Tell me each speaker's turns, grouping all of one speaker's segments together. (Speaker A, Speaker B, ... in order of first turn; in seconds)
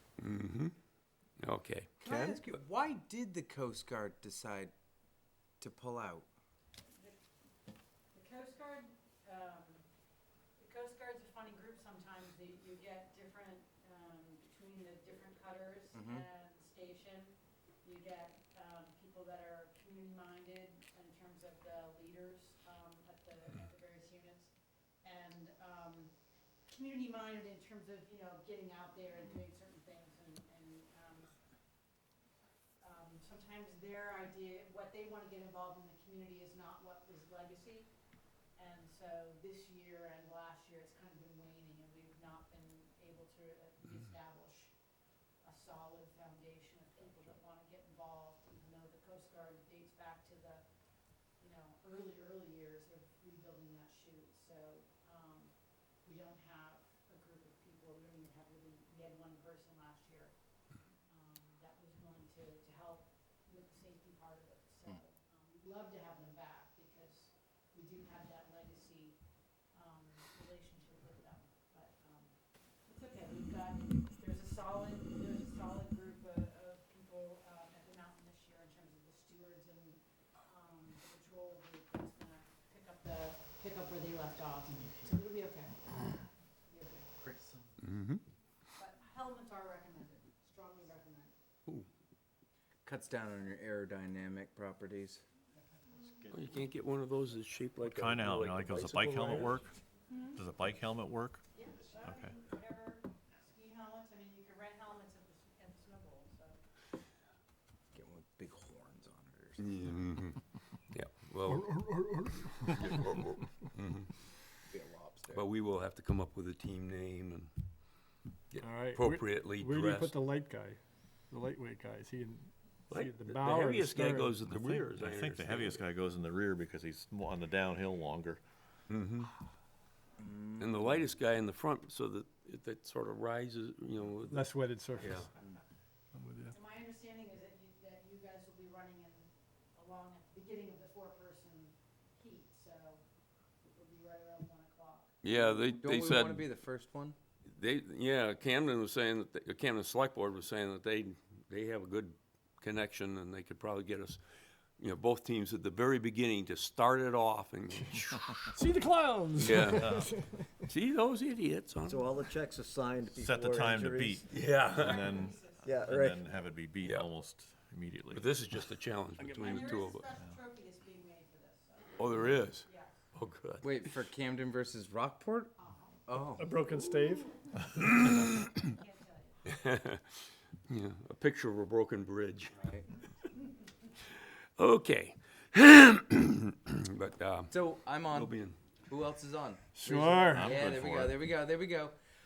Speaker A: 0.2-0.7, 1.4-2.5, 87.8-88.2, 96.3-99.6, 109.6-110.4, 110.9-111.8, 112.6-114.1, 115.3-117.5, 118.5-120.2, 122.9-125.8, 128.9-129.3, 130.6-135.3, 145.2-146.5, 147.4-154.2, 154.8-158.4, 159.4-160.0, 160.7-162.2, 164.3-165.1, 168.1-170.1, 172.0-173.9, 177.8-178.6, 179.5-180.0, 180.7-182.5, 184.6-188.6
Speaker B: 2.0-4.7, 5.6-6.3, 15.9-16.2, 87.2-87.7, 92.8-95.2, 107.9-109.9, 114.7-115.4, 130.2-131.0, 145.5-147.2, 173.6-175.5, 176.1-176.6, 182.6-182.8, 187.5-192.0
Speaker C: 6.9-7.2, 8.1-9.9, 10.6-24.5, 25.0-26.1, 26.7-31.3, 32.8-37.9, 38.5-44.7, 45.4-50.6, 51.4-60.3, 61.1-69.2, 69.7-87.1, 88.8-91.3, 95.9-96.2, 101.5-106.6, 136.5-143.0, 143.7-145.1, 164.6-165.9, 169.2-173.1, 175.6-176.1, 178.6-179.5
Speaker D: 97.8-99.7, 100.3-101.4, 102.0-102.3, 124.7-128.4, 159.6-160.1, 163.1-168.3, 190.3-191.3
Speaker E: 111.5-113.3, 118.6-124.8, 134.3-135.3, 136.1-136.5, 158.5-160.7, 176.3-177.3, 189.8-190.6
Speaker F: 161.8-164.3, 165.6-166.3